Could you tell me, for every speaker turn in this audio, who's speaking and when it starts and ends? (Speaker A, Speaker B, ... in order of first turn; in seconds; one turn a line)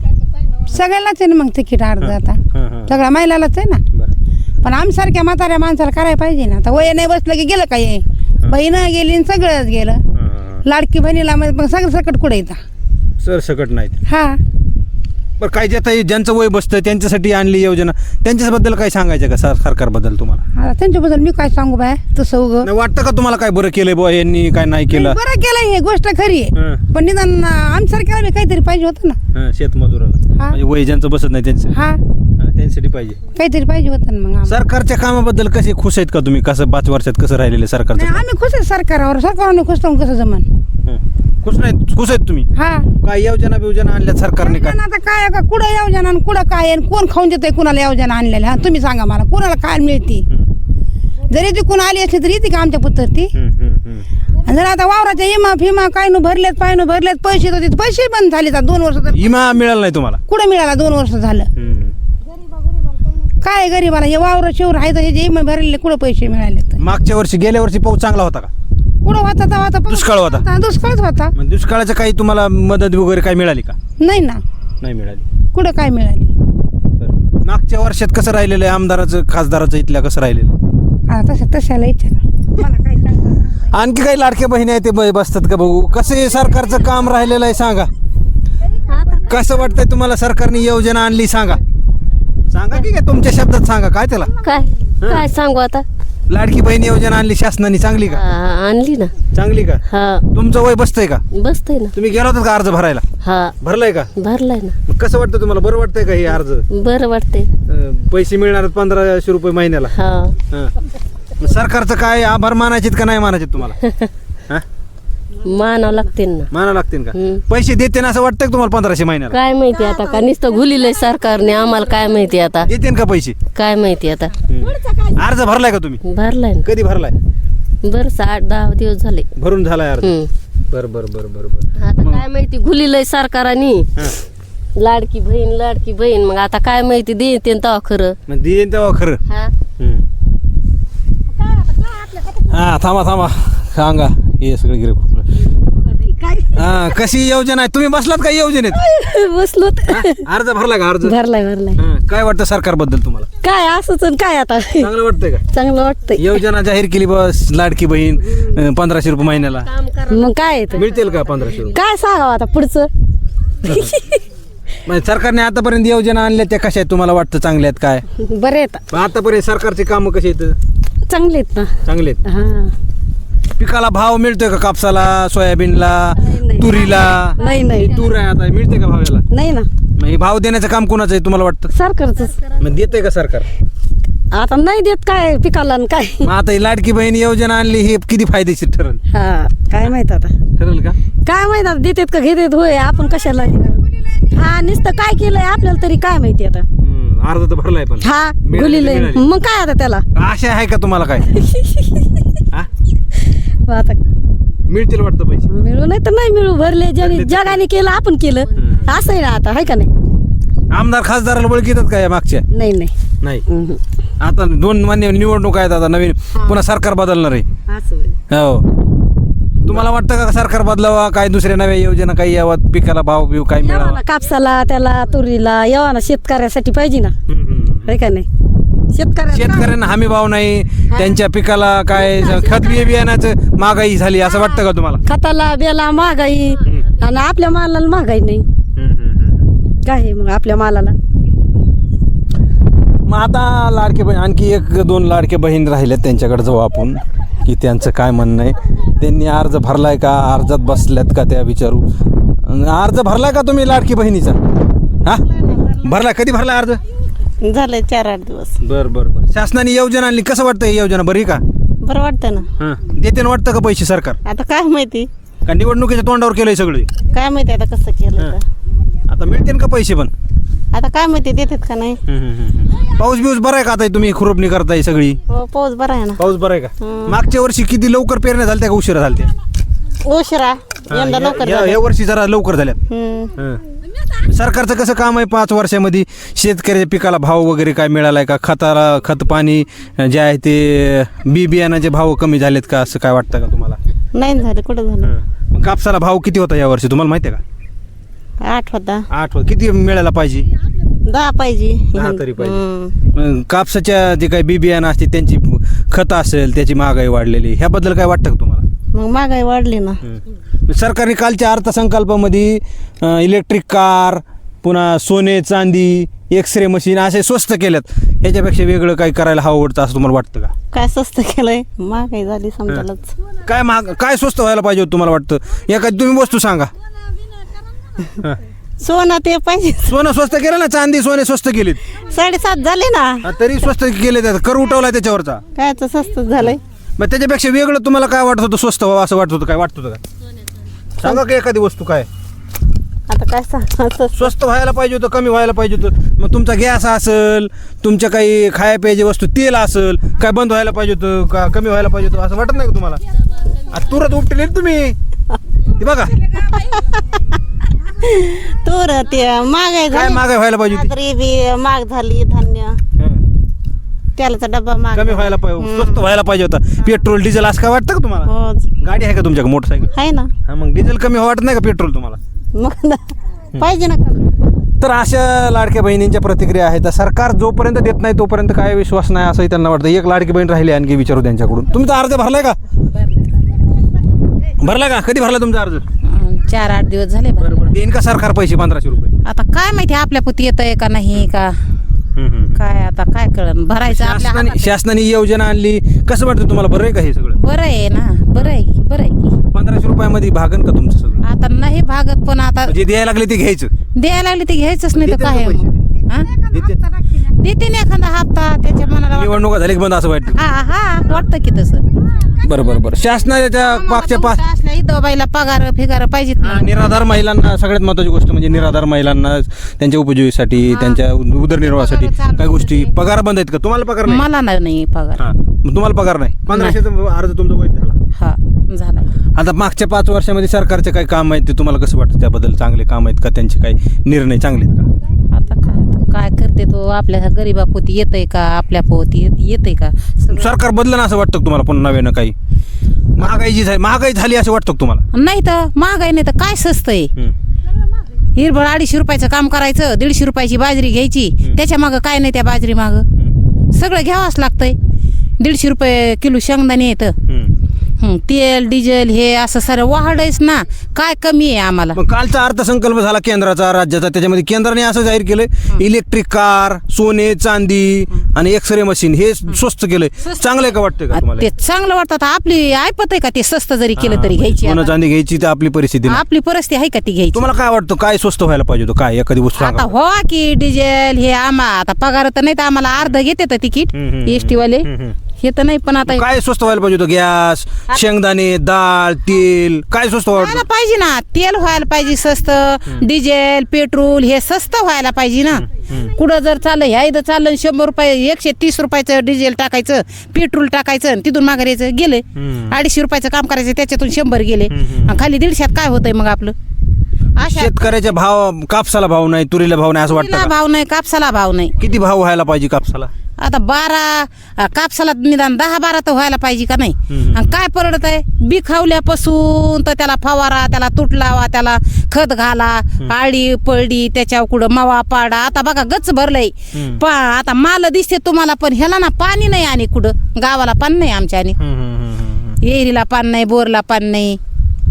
Speaker A: 0.7-3.8
Speaker B: 2.0-3.0
Speaker A: 4.6-10.0
Speaker B: 10.1-10.6
Speaker A: 10.7-12.6
Speaker B: 13.2-14.0
Speaker A: 14.1-14.4
Speaker B: 15.4-20.4
Speaker A: 20.6-22.7
Speaker B: 22.6-25.2
Speaker A: 24.9-29.2
Speaker B: 26.6-26.8
Speaker B: 29.3-31.7
Speaker A: 31.7-32.0
Speaker B: 32.4-33.2
Speaker A: 33.4-34.5
Speaker B: 34.5-38.2
Speaker A: 38.0-40.5
Speaker B: 40.9-42.5
Speaker A: 42.6-42.9
Speaker B: 43.0-44.8
Speaker A: 44.4-50.3
Speaker A: 51.3-53.3
Speaker B: 53.3-54.1
Speaker A: 54.4-59.3
Speaker B: 59.1-60.2
Speaker A: 60.3-61.5
Speaker B: 61.6-62.0
Speaker A: 63.4-66.8
Speaker B: 66.8-68.5
Speaker A: 69.0-71.3
Speaker B: 69.9-70.5
Speaker B: 71.4-73.8
Speaker A: 74.0-74.4
Speaker B: 74.8-75.2
Speaker A: 75.5-76.3
Speaker B: 77.0-80.5
Speaker A: 81.1-83.7
Speaker B: 83.7-87.9
Speaker C: 88.9-89.3
Speaker B: 89.3-91.6
Speaker B: 92.5-94.3
Speaker C: 94.4-95.8
Speaker B: 95.0-95.3
Speaker B: 96.3-98.2
Speaker C: 98.1-99.1
Speaker B: 99.3-101.2
Speaker C: 99.9-100.2
Speaker C: 101.3-101.9
Speaker B: 102.0-103.0
Speaker C: 103.2-103.5
Speaker B: 103.6-104.1
Speaker C: 104.2-104.8
Speaker B: 104.9-106.7
Speaker C: 106.7-107.5
Speaker B: 107.7-109.9
Speaker C: 110.0-110.3
Speaker B: 111.4-113.8
Speaker C: 115.4-116.5
Speaker B: 116.5-119.4
Speaker C: 117.2-117.4
Speaker C: 119.3-122.7
Speaker D: 119.8-120.3
Speaker B: 122.7-123.4
Speaker C: 123.5-124.3
Speaker B: 124.5-126.0
Speaker D: 124.8-125.1
Speaker C: 126.0-126.7
Speaker B: 126.6-127.2
Speaker C: 127.8-129.3
Speaker B: 129.4-130.2
Speaker C: 130.0-130.3
Speaker B: 130.7-132.3
Speaker C: 131.8-133.9
Speaker C: 134.8-138.2
Speaker B: 138.3-139.2
Speaker B: 139.8-140.1
Speaker D: 141.6-142.3
Speaker B: 142.4-145.3
Speaker D: 146.1-146.7
Speaker B: 146.5-148.8
Speaker D: 148.7-150.2
Speaker B: 149.9-151.2
Speaker D: 151.1-151.8
Speaker B: 151.8-153.3
Speaker D: 153.4-154.9
Speaker B: 154.8-155.4
Speaker D: 155.5-156.4
Speaker B: 156.2-159.7
Speaker C: 159.7-160.2
Speaker D: 160.1-160.9
Speaker B: 160.7-161.8
Speaker D: 161.7-162.9
Speaker B: 163.7-163.9
Speaker D: 163.7-164.2
Speaker B: 164.8-168.1
Speaker D: 168.2-168.8
Speaker B: 168.9-170.6
Speaker D: 171.1-171.7
Speaker B: 171.8-172.2
Speaker D: 172.2-172.7
Speaker B: 173.6-179.2
Speaker D: 176.3-178.0
Speaker D: 179.3-179.7
Speaker B: 180.0-181.7
Speaker D: 181.7-182.5
Speaker B: 182.6-183.5
Speaker D: 184.3-186.3
Speaker B: 186.2-189.0
Speaker D: 189.1-190.3
Speaker B: 190.6-191.0
Speaker D: 191.3-196.7
Speaker B: 196.8-199.2
Speaker D: 198.0-200.1
Speaker B: 200.2-201.3
Speaker D: 201.4-201.9
Speaker D: 203.7-204.0
Speaker B: 204.7-205.5
Speaker D: 205.5-209.9
Speaker B: 207.0-207.6
Speaker B: 208.6-208.8
Speaker B: 210.7-212.4
Speaker D: 212.5-212.9
Speaker D: 213.5-213.8
Speaker B: 214.2-217.5
Speaker D: 216.3-216.6
Speaker D: 217.7-218.2
Speaker B: 218.3-218.7
Speaker B: 219.6-224.0
Speaker D: 223.6-227.2
Speaker B: 227.3-228.0
Speaker D: 227.8-228.3
Speaker D: 228.9-229.7
Speaker B: 229.3-235.0
Speaker D: 235.1-238.4
Speaker B: 238.8-239.5
Speaker D: 239.8-240.9
Speaker B: 243.1-251.9
Speaker B: 252.4-254.4
Speaker B: 255.0-256.8
Speaker E: 257.4-258.6
Speaker B: 258.6-261.4
Speaker E: 261.8-262.5
Speaker B: 262.6-264.2
Speaker E: 264.2-265.1
Speaker B: 265.5-266.9
Speaker E: 267.1-268.4
Speaker B: 269.1-270.1
Speaker E: 270.7-272.0
Speaker B: 272.1-275.2
Speaker E: 275.3-276.2
Speaker B: 276.2-279.3
Speaker E: 276.8-277.1
Speaker E: 280.0-281.8
Speaker B: 280.9-282.8
Speaker E: 282.9-283.3
Speaker B: 284.3-293.8
Speaker E: 294.1-295.1
Speaker B: 295.0-297.4
Speaker E: 298.4-299.1
Speaker B: 299.1-300.5
Speaker E: 301.0-303.0
Speaker B: 301.9-302.6
Speaker B: 303.1-308.6
Speaker E: 308.9-310.0
Speaker B: 310.0-320.5
Speaker E: 320.7-323.1
Speaker B: 323.4-326.7
Speaker E: 328.8-329.9
Speaker B: 329.9-331.8
Speaker E: 332.1-333.3
Speaker B: 333.2-335.4
Speaker E: 335.6-336.6
Speaker B: 336.4-340.0
Speaker B: 341.0-342.1
Speaker E: 343.1-344.3
Speaker B: 344.1-353.0
Speaker B: 353.7-355.0
Speaker B: 355.8-356.2
Speaker E: 357.9-362.8
Speaker B: 359.9-360.9
Speaker E: 364.2-366.1
Speaker B: 364.9-369.9
Speaker E: 368.2-368.7
Speaker E: 369.9-370.3
Speaker B: 370.5-372.2
Speaker E: 372.5-374.3
Speaker B: 374.8-382.6
Speaker B: 384.6-385.9
Speaker F: 386.1-387.8
Speaker B: 387.4-389.1
Speaker F: 389.2-391.6
Speaker B: 392.2-392.6
Speaker F: 392.6-394.8
Speaker B: 393.9-397.4
Speaker F: 397.4-399.4
Speaker B: 399.5-401.2
Speaker F: 401.2-402.7
Speaker B: 402.7-403.7
Speaker F: 404.0-406.3
Speaker B: 404.9-405.8
Speaker A: 406.3-407.2
Speaker B: 406.5-406.8
Speaker F: 407.4-409.4
Speaker B: 409.0-410.4
Speaker F: 410.4-411.8
Speaker B: 412.4-414.4
Speaker F: 413.6-416.8
Speaker B: 416.4-424.2
Speaker F: 420.6-421.0
Speaker F: 421.5-422.9
Speaker F: 424.1-425.2
Speaker B: 425.2-428.0
Speaker F: 426.5-426.8
Speaker F: 428.2-429.2
Speaker B: 429.4-434.9
Speaker F: 435.3-440.6
Speaker B: 440.3-442.4
Speaker B: 443.2-445.0
Speaker F: 445.1-447.1
Speaker F: 448.4-453.1
Speaker F: 453.7-454.8
Speaker F: 455.4-457.2
Speaker B: 457.3-457.5
Speaker F: 458.0-462.0
Speaker B: 461.9-471.5
Speaker F: 471.1-474.9
Speaker B: 474.0-476.2
Speaker F: 476.1-477.5
Speaker B: 477.3-479.9
Speaker F: 479.6-484.9
Speaker B: 483.9-485.2
Speaker F: 485.4-486.3
Speaker B: 486.1-490.6
Speaker F: 490.3-506.6
Speaker B: 495.5-496.1
Speaker B: 502.4-502.8
Speaker B: 504.7-505.1
Speaker F: 507.4-507.9
Speaker B: 507.4-510.5
Speaker F: 510.1-511.8
Speaker B: 511.8-513.1
Speaker F: 513.4-531.6
Speaker B: 517.1-517.5
Speaker B: 526.7-527.0
Speaker B: 531.6-532.6
Speaker F: 532.6-534.4